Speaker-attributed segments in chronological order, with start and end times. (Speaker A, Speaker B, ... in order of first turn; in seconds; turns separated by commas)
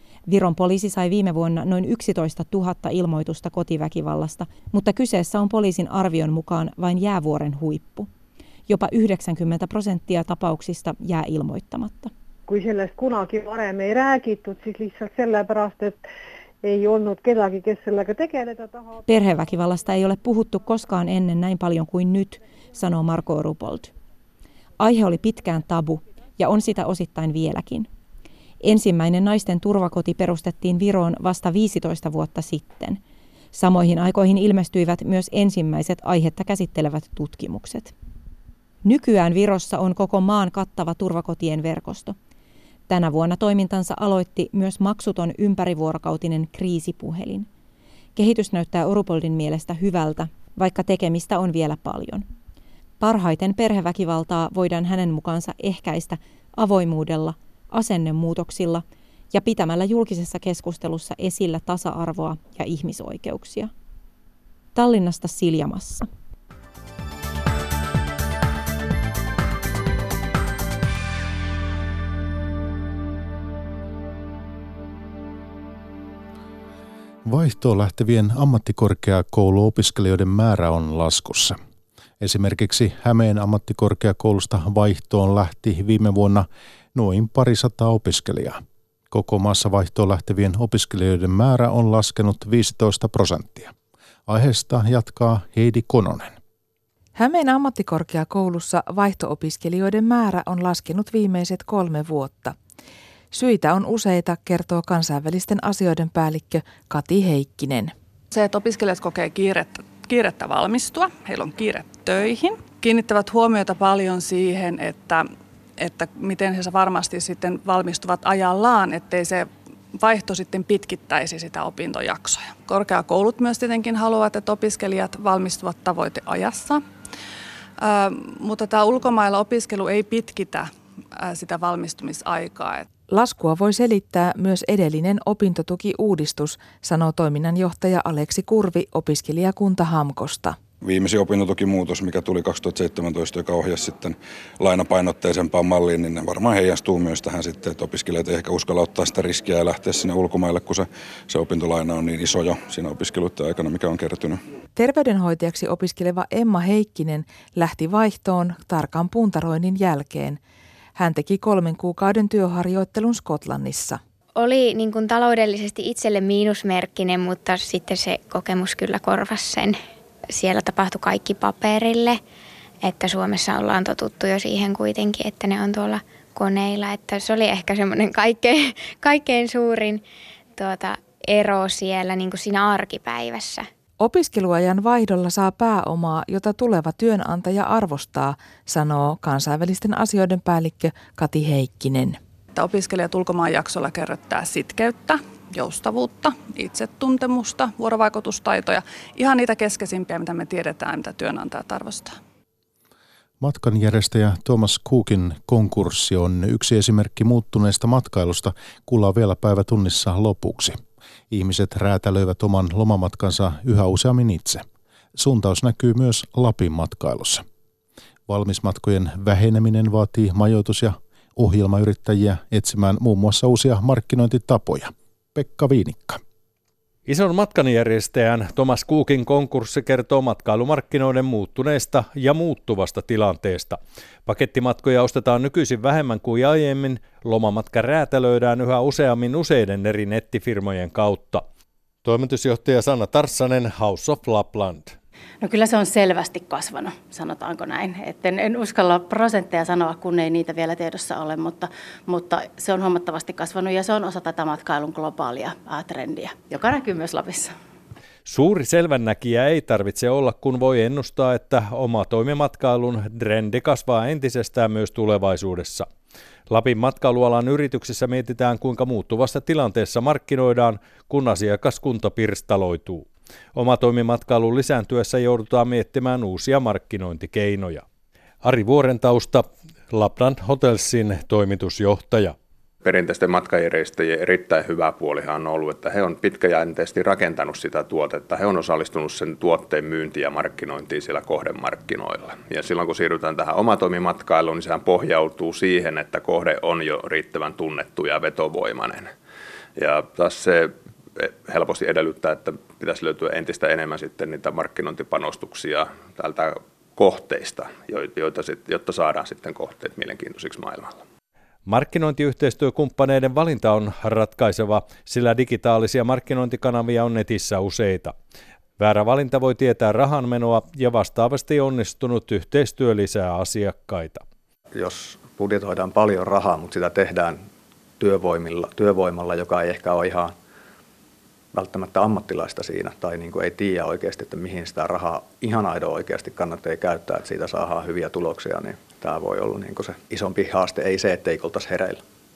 Speaker A: 0.3-8.1, Speaker A: 8.7-12.1, Speaker B: 12.5-16.0, Speaker B: 16.6-18.8, Speaker A: 19.1-23.9, Speaker A: 24.8-27.9, Speaker A: 28.6-33.0, Speaker A: 33.5-37.9, Speaker A: 38.8-42.1, Speaker A: 42.9-47.5, Speaker A: 48.1-52.2, Speaker A: 53.0-63.7, Speaker A: 64.7-66.1, Speaker C: 77.2-81.6, Speaker C: 82.2-93.7, Speaker C: 94.3-96.3, Speaker D: 97.2-102.5, Speaker D: 103.3-107.9, Speaker E: 108.3-115.3, Speaker E: 115.8-126.8, Speaker E: 127.8-132.9, Speaker D: 133.1-140.6, Speaker F: 140.8-154.4, Speaker D: 154.7-160.4, Speaker D: 160.9-164.0, Speaker G: 164.3-169.8, Speaker G: 170.3-172.2, Speaker G: 172.8-180.0, Speaker G: 180.5-183.7, Speaker D: 184.0-192.2, Speaker E: 192.5-202.2, Speaker C: 203.4-210.8, Speaker C: 211.3-217.4, Speaker C: 218.3-226.2, Speaker H: 227.1-241.4, Speaker H: 242.0-244.9, Speaker I: 245.4-257.5, Speaker H: 258.2-265.9, Speaker H: 266.5-277.8, Speaker H: 278.4-282.4, Speaker J: 282.8-299.1, Speaker J: 299.8-311.0, Speaker H: 311.7-318.1, Speaker H: 318.8-324.2, Speaker K: 324.7-327.5, Speaker K: 328.0-330.3, Speaker K: 331.5-342.0